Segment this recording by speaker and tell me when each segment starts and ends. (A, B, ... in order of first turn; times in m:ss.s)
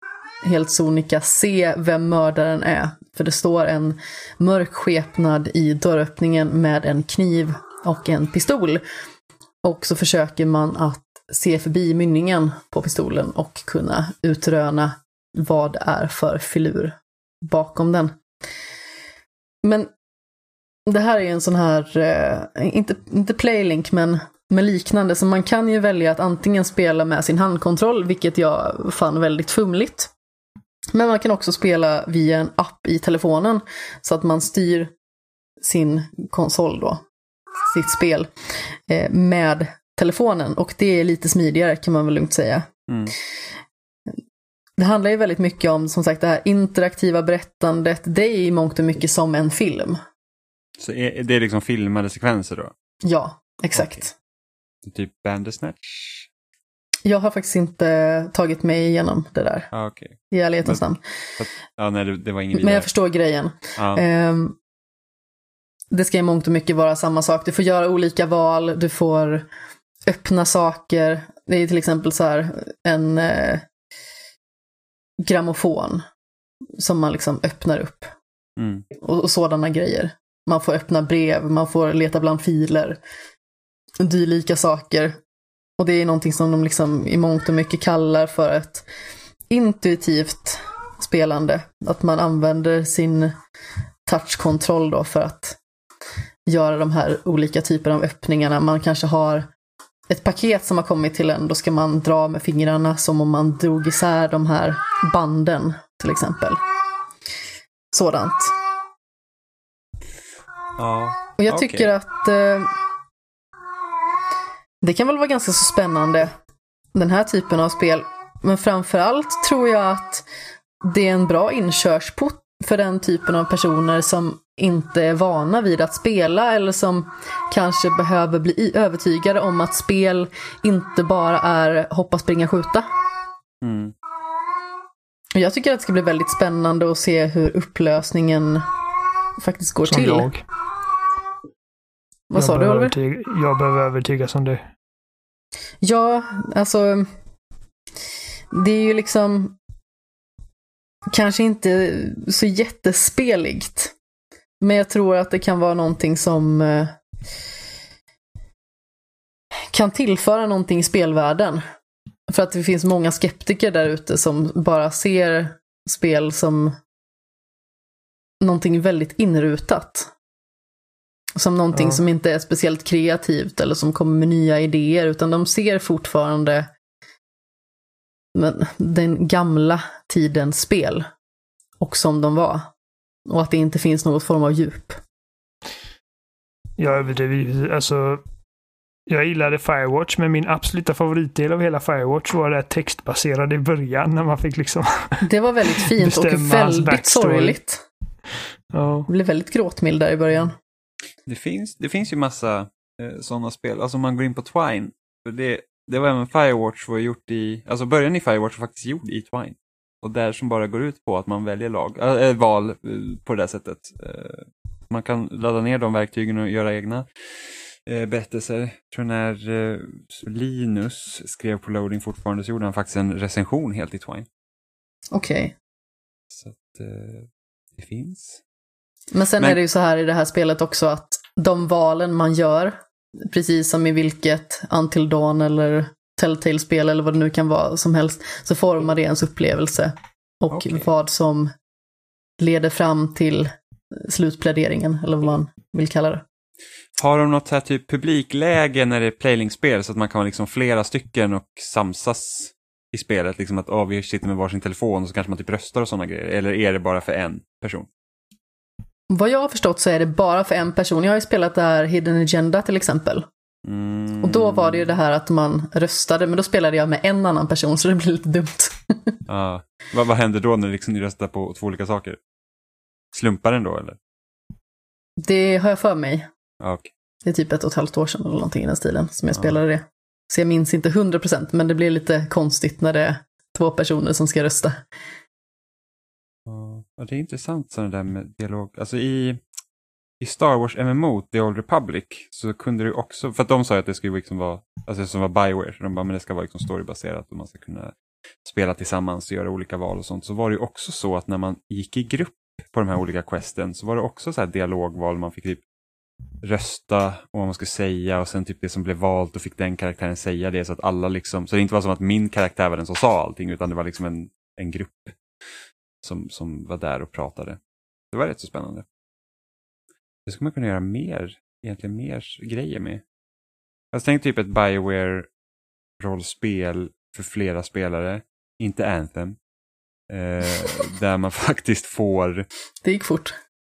0:00.4-0:08.8 A
0:09.6-0:18.2 A
0:19.6-0:19.9 A
0:20.9-0:30.1 A
0:30.9-0:34.9 A
0:35.6-0:37.0 A
0:37.7-0:38.3 A
0:38.9-0:42.7 A
0:42.9-0:43.1 B
0:44.8-0:50.0 A
0:50.8-0:52.7 B
0:53.0-0:54.1 A
0:53.8-0:54.0 B
0:54.8-0:56.3 B
0:57.0-0:59.7 A
0:59.7-1:00.8 B
1:00.3-1:01.0 A
1:01.4-1:02.9 B
1:02.6-1:04.6 A
1:03.8-1:04.0 B
1:05.9-1:09.5 A
1:10.1-1:13.6 A
1:15.2-1:16.0 A
1:16.8-1:18.1 A
1:18.6-1:18.8 B
1:19.0-1:23.0 A
1:24.0-1:25.2 A
1:25.8-1:28.9 A
1:29.5-1:33.4 A
1:34.1-1:35.6 A
1:36.5-1:39.5 A
1:40.1-1:46.6 A
1:47.9-1:48.5 A
1:50.8-1:51.9 B
1:51.4-1:52.7 A
1:54.8-1:56.3 A
1:57.0-2:00.3 A
2:00.8-2:12.9 A
2:13.6-2:14.0 B
2:15.3-2:18.7 A
2:19.4-2:20.3 A
2:19.9-2:20.4 C
2:22.3-2:23.0 A
2:22.4-2:24.7 C
2:25.8-2:27.1 A
2:28.5-2:29.6 A
2:31.1-2:33.9 A
2:34.6-2:36.9 A
2:39.7-2:41.6 A
2:42.3-2:46.8 A
2:48.4-2:50.1 A
2:51.4-2:56.7 A
2:51.7-2:52.0 C
2:58.4-3:01.1 A
3:01.8-3:02.7 A
3:03.3-3:05.0 A
3:06.8-3:08.2 C
3:09.1-3:15.2 C
3:15.2-3:17.8 A
3:15.9-3:17.6 C
3:18.7-3:19.1 C
3:19.1-3:20.6 A
3:21.3-3:37.1 B
3:37.9-3:44.3 B
3:45.1-3:45.6 A
3:46.3-3:48.4 B
3:49.1-4:01.5 A
4:00.5-4:00.9 B
4:02.4-4:06.2 A
4:07.0-4:17.9 B
4:19.1-4:23.3 A
4:23.6-4:24.9 B
4:24.2-4:29.2 A
4:29.3-4:32.2 B
4:33.1-4:34.0 B
4:35.2-4:36.3 A
4:36.6-4:36.9 B
4:37.2-4:44.8 A
4:46.5-4:49.4 B
4:50.2-4:57.9 B
4:58.4-5:05.6 B
5:06.4-5:15.2 B
5:16.0-5:17.6 B
5:18.1-5:18.9 B
5:20.3-5:23.0 B
5:23.9-5:25.3 B
5:26.0-5:29.4 B
5:30.1-5:32.5 B
5:32.8-5:33.4 A